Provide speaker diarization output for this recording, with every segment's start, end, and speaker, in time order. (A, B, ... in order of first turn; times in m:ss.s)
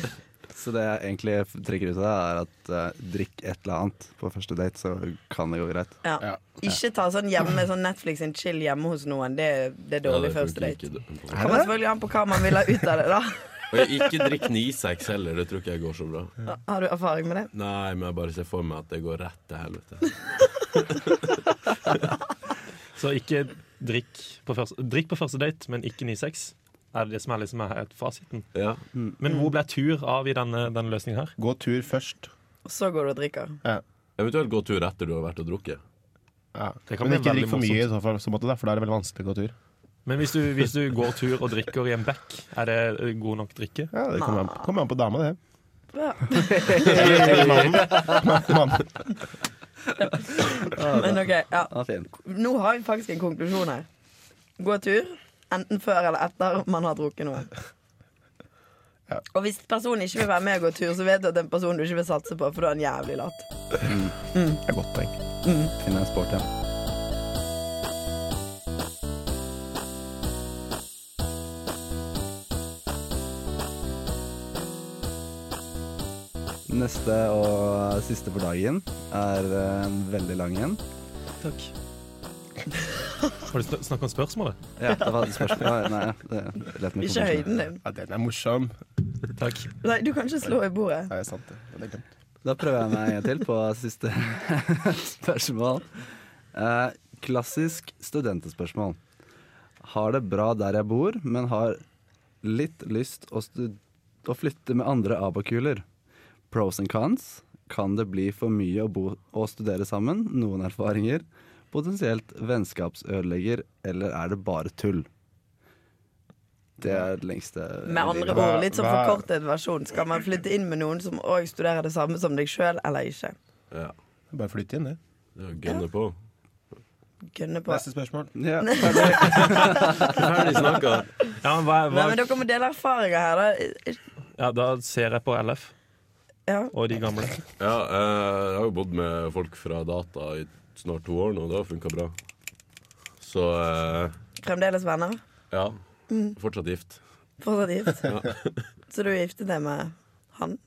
0:00.5-0:06.0 A
0:06.0-0:10.8 B
0:10.0-0:11.6 C
0:11.3-0:11.7 D
0:11.4-0:13.8 B
0:13.7-0:16.3 C
0:16.4-0:17.5 B
0:17.5-0:21.3 C
0:23.0-0:28.5 E
0:28.5-0:28.8 C
0:29.2-0:31.3 E
0:31.4-0:32.3 D
0:32.6-0:33.6 B
0:34.2-0:35.8 C
0:36.5-0:39.5 D
0:36.9-0:37.8 E
0:40.0-0:43.9 E
0:43.9-0:45.4 D
0:44.2-0:44.6 B
0:45.9-0:47.0 B
0:46.3-0:48.5 A
0:46.8-0:48.9 D
0:50.0-0:53.9 B
0:50.6-0:52.1 A
0:54.6-0:57.5 B
0:59.3-1:03.5 B
1:03.8-1:04.1 A
1:04.3-1:04.6 B
1:04.6-1:05.2 D
1:05.4-1:05.7 B
1:05.8-1:06.4 A
1:16.7-1:20.8 A
1:21.4-1:21.7 E
1:23.5-1:24.6 E
1:24.8-1:27.6 A
1:27.0-1:27.8 B
1:27.8-1:28.8 D
1:29.4-1:29.7 E
1:29.8-1:31.1 B
1:31.1-1:32.1 D
1:32.4-1:39.0 A
1:39.8-1:41.8 A
1:42.4-1:45.8 A
1:46.5-1:55.1 A
1:56.8-1:58.5 A
1:57.8-2:03.3 B
1:58.3-1:59.2 D
2:04.3-2:05.0 D
2:05.4-2:06.1 C
2:07.3-2:07.8 B
2:07.7-2:08.3 D
2:08.3-2:10.2 A
2:08.6-2:09.6 B
2:10.1-2:11.1 C
2:11.4-2:12.2 E
2:11.9-2:14.0 B
2:14.4-2:15.7 E
2:16.5-2:16.7 B
2:16.7-2:17.4 E
2:17.6-2:22.1 C
2:23.2-2:24.1 C
2:24.4-2:25.2 B
2:25.5-2:25.8 C
2:26.1-2:26.4 B
2:26.3-2:27.0 C
2:27.4-2:28.1 B
2:28.0-2:28.6 C
2:28.9-2:30.6 B